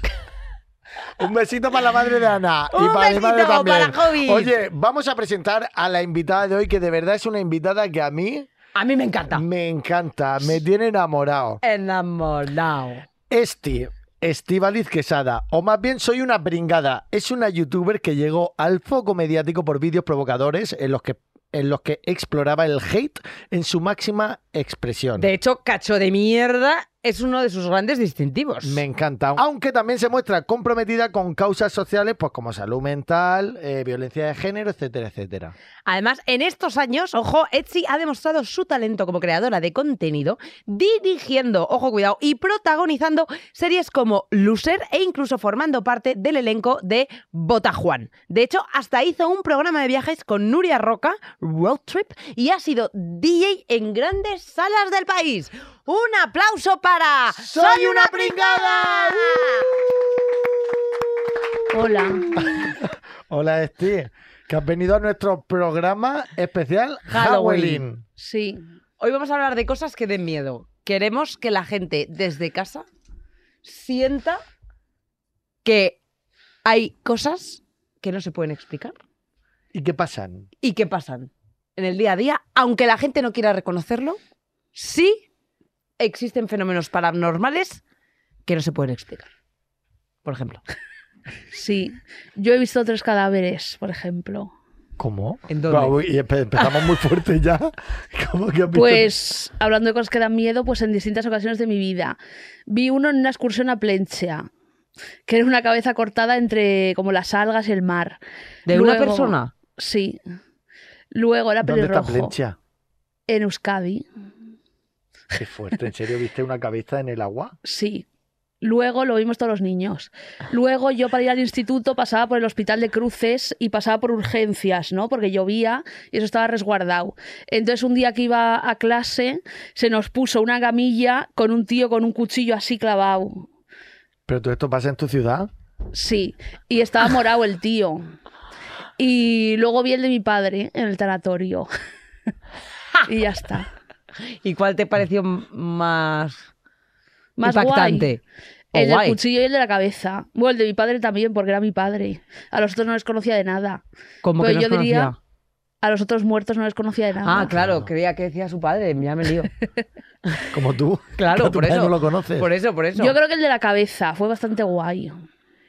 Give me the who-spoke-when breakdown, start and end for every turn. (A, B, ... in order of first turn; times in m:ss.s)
0:01.2-0:08.5 A
0:02.7-0:04.5 B
0:08.7-0:09.4 B
0:09.3-0:11.6 A
0:11.6-0:13.0 B
0:13.3-0:25.3 A
0:25.2-0:28.8 B
0:28.6-0:35.5 A
0:35.8-0:59.7 B
0:57.4-0:59.6 A
1:01.7-1:02.4 C
1:01.9-1:08.0 A
1:07.1-1:07.8 B
1:08.2-1:08.7 C
1:09.0-1:12.8 B
1:13.6-1:14.4 B
1:15.6-1:16.0 B
1:16.6-1:19.0 B
1:19.7-1:20.5 A
1:20.6-1:24.2 B
1:24.7-1:25.2 B
1:26.0-1:27.8 B
1:28.5-1:29.3 B
1:30.2-1:30.6 B
1:31.5-1:34.5 C
1:35.0-1:39.1 A
1:35.5-1:36.0 B
1:36.6-1:36.9 B
1:38.7-1:44.5 C
1:45.3-1:50.2 C
1:48.7-1:49.5 B
1:51.1-1:52.3 C
1:51.6-1:52.6 A
1:53.3-1:54.0 C
1:55.3-1:57.6 A
1:57.6-1:58.0 C
1:58.6-2:13.5 C
2:14.3-2:15.5 A
2:15.9-2:18.1 C
2:19.0-2:21.7 C
2:23.1-2:23.7 C
2:24.4-2:26.4 B
2:27.4-2:28.1 C
2:27.4-2:28.2 B
2:28.7-2:29.2 B
2:28.7-2:33.8 C
2:34.2-2:35.2 B
2:34.4-2:35.1 C
2:35.8-2:37.5 C
2:37.2-2:39.5 B
2:37.5-2:37.9 A
2:40.5-2:42.5 A
2:41.2-2:43.2 B
2:43.0-2:45.2 C